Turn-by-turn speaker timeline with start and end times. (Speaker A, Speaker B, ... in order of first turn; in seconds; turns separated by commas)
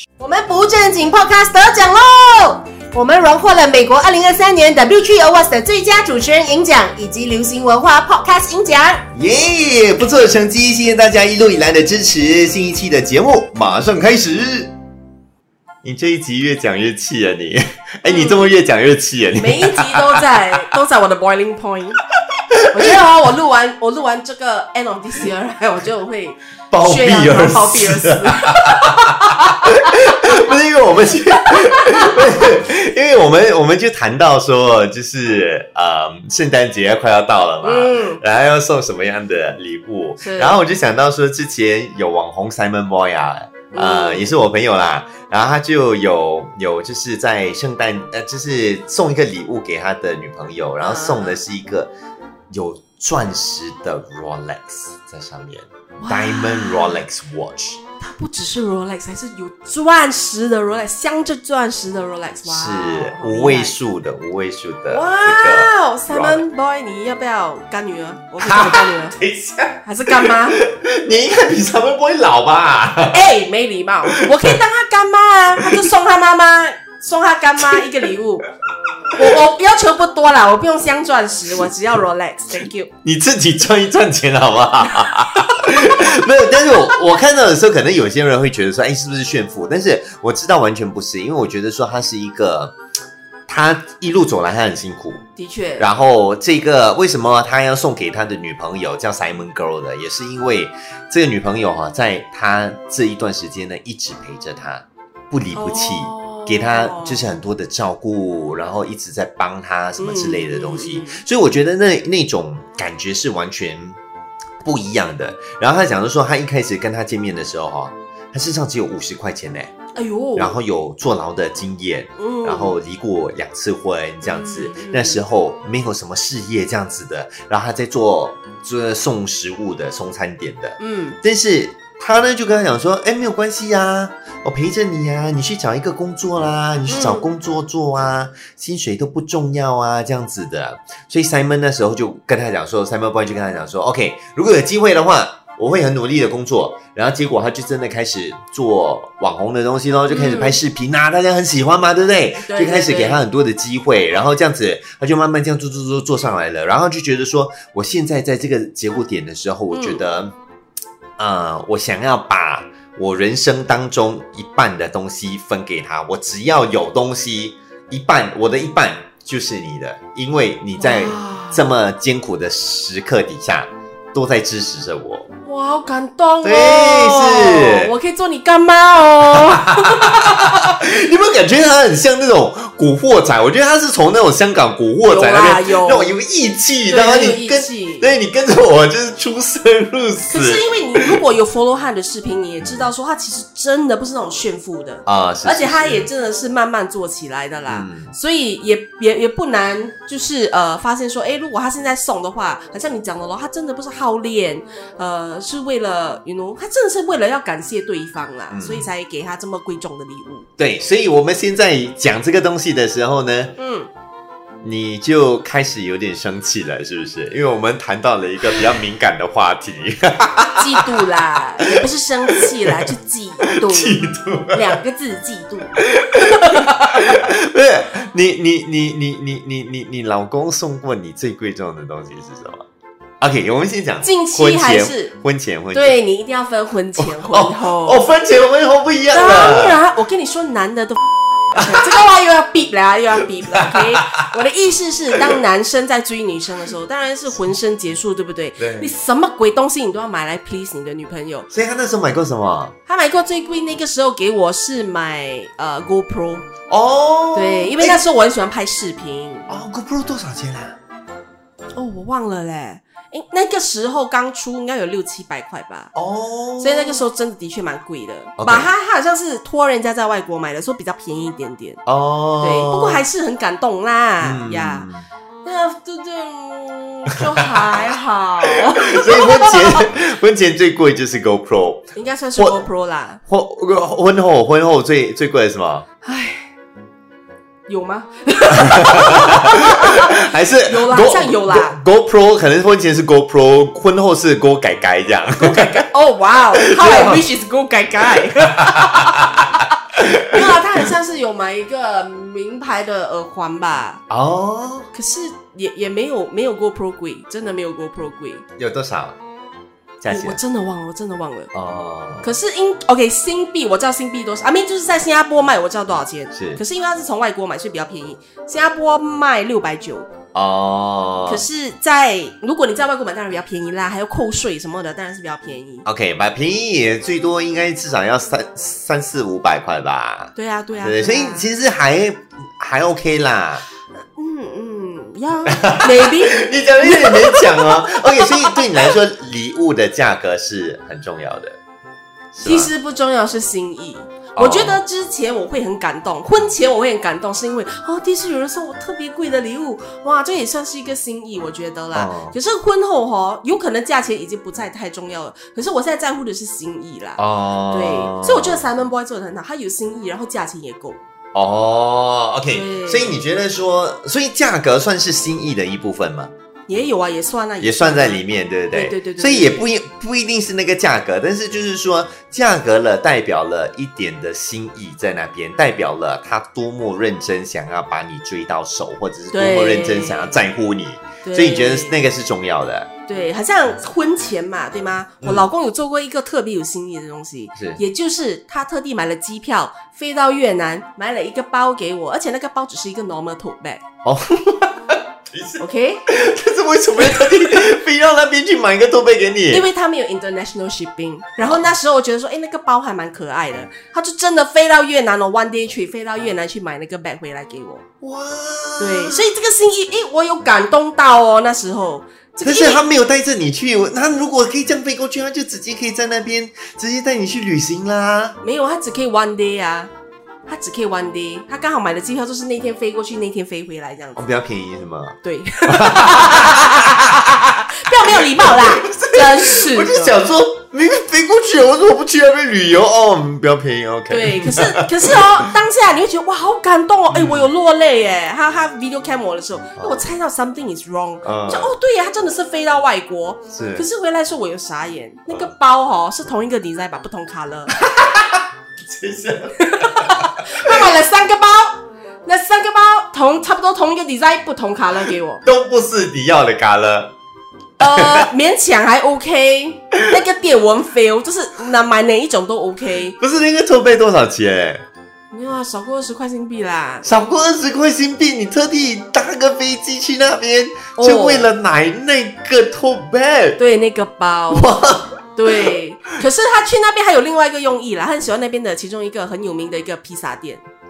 Speaker A: 0.2-9.1, Speaker B: 9.1-14.7, Speaker B: 15.8-20.4, Speaker A: 18.1-18.6, Speaker A: 19.4-22.0, Speaker B: 22.5-22.9, Speaker A: 22.7-30.3, Speaker B: 26.7-51.9, Speaker A: 31.4-32.2, Speaker A: 37.6-38.2, Speaker A: 40.2-40.6, Speaker A: 43.7-44.3, Speaker A: 50.8-51.4, Speaker B: 52.5-57.8, Speaker A: 56.0-57.0, Speaker A: 58.0-63.7, Speaker B: 62.5-66.4, Speaker A: 64.9-69.2, Speaker B: 68.4-73.3, Speaker A: 69.8-70.6, Speaker A: 73.1-78.5, Speaker B: 74.1-74.6, Speaker B: 75.6-75.8, Speaker A: 79.2-82.9, Speaker B: 83.0-92.7, Speaker B: 93.5-95.2, Speaker A: 95.4-95.9, Speaker B: 95.8-114.0, Speaker A: 105.5-107.3, Speaker A: 110.0-111.2, Speaker B: 114.6-119.7, Speaker A: 120.0-120.6, Speaker B: 120.4-160.3, Speaker A: 122.2-122.7, Speaker A: 124.2-125.2, Speaker A: 130.8-131.2, Speaker A: 136.9-137.3, Speaker A: 150.1-150.6, Speaker A: 152.4-153.2, Speaker A: 159.7-160.0, Speaker B: 161.2-175.3, Speaker A: 170.8-171.7, Speaker A: 175.4-180.7, Speaker B: 176.4-177.9, Speaker B: 179.3-191.2, Speaker A: 185.1-186.2, Speaker A: 186.9-188.2, Speaker A: 190.3-210.5, Speaker B: 195.1-196.1, Speaker B: 197.7-198.1, Speaker B: 208.5-208.9, Speaker B: 210.6-213.5, Speaker A: 213.6-213.9, Speaker B: 214.6-221.1, Speaker A: 220.6-226.9, Speaker B: 222.3-222.9, Speaker B: 223.4-224.7, Speaker B: 225.8-232.7, Speaker B: 233.2-236.0, Speaker A: 234.0-235.2, Speaker A: 235.7-238.1, Speaker B: 237.0-239.8, Speaker A: 239.1-241.0, Speaker A: 241.5-251.5, Speaker B: 241.6-241.8, Speaker B: 243.6-244.3, Speaker B: 248.6-248.9, Speaker B: 251.5-252.8, Speaker A: 252.9-256.4, Speaker B: 256.7-258.0, Speaker A: 257.3-259.5, Speaker B: 259.5-260.8, Speaker A: 261.8-265.9, Speaker B: 265.9-267.0, Speaker A: 266.6-271.8, Speaker B: 268.4-268.7, Speaker B: 271.9-273.0, Speaker A: 272.4-274.9, Speaker B: 274.2-275.1, Speaker A: 275.4-279.9, Speaker B: 278.5-282.6, Speaker A: 281.9-283.2, Speaker B: 283.3-285.9, Speaker A: 286.0-286.5, Speaker A: 287.7-291.8, Speaker B: 288.6-295.8, Speaker A: 295.4-304.0, Speaker B: 296.6-297.2, Speaker B: 298.4-300.8, Speaker B: 304.1-304.9, Speaker A: 304.9-308.4, Speaker B: 308.6-309.2, Speaker B: 310.0-310.4, Speaker A: 310.1-311.5, Speaker B: 311.5-312.3, Speaker A: 312.2-320.1, Speaker B: 316.3-316.6, Speaker B: 320.3-321.5, Speaker A: 321.3-325.9, Speaker B: 325.9-333.6, Speaker A: 330.4-331.5, Speaker A: 334.2-338.9, Speaker B: 335.5-341.6, Speaker B: 342.3-342.7, Speaker A: 342.4-361.0, Speaker B: 344.4-344.8, Speaker B: 351.9-352.4, Speaker B: 357.2-358.6, Speaker B: 361.3-366.3, Speaker A: 362.5-363.2, Speaker A: 366.7-369.6, Speaker B: 367.6-382.9, Speaker A: 379.3-380.5, Speaker A: 381.2-382.0, Speaker A: 383.1-393.8, Speaker B: 385.2-385.5, Speaker B: 387.6-387.8, Speaker B: 394.0-399.6, Speaker A: 395.6-396.0, Speaker A: 399.5-407.8, Speaker B: 408.0-409.2, Speaker A: 408.8-412.8, Speaker B: 412.4-418.4, Speaker A: 418.4-419.9, Speaker A: 420.5-424.2, Speaker B: 424.2-435.5, Speaker A: 425.2-430.2, Speaker A: 434.1-447.8, Speaker B: 437.1-437.5, Speaker B: 441.2-441.7, Speaker B: 443.5-443.9, Speaker B: 447.8-450.9, Speaker A: 449.6-455.4, Speaker B: 455.4-457.1, Speaker B: 457.8-458.3, Speaker A: 457.8-463.2, Speaker B: 463.2-464.9, Speaker A: 465.3-467.1, Speaker B: 467.0-473.6, Speaker A: 471.0-471.5, Speaker A: 473.6-474.8, Speaker B: 474.5-475.1, Speaker A: 475.4-480.6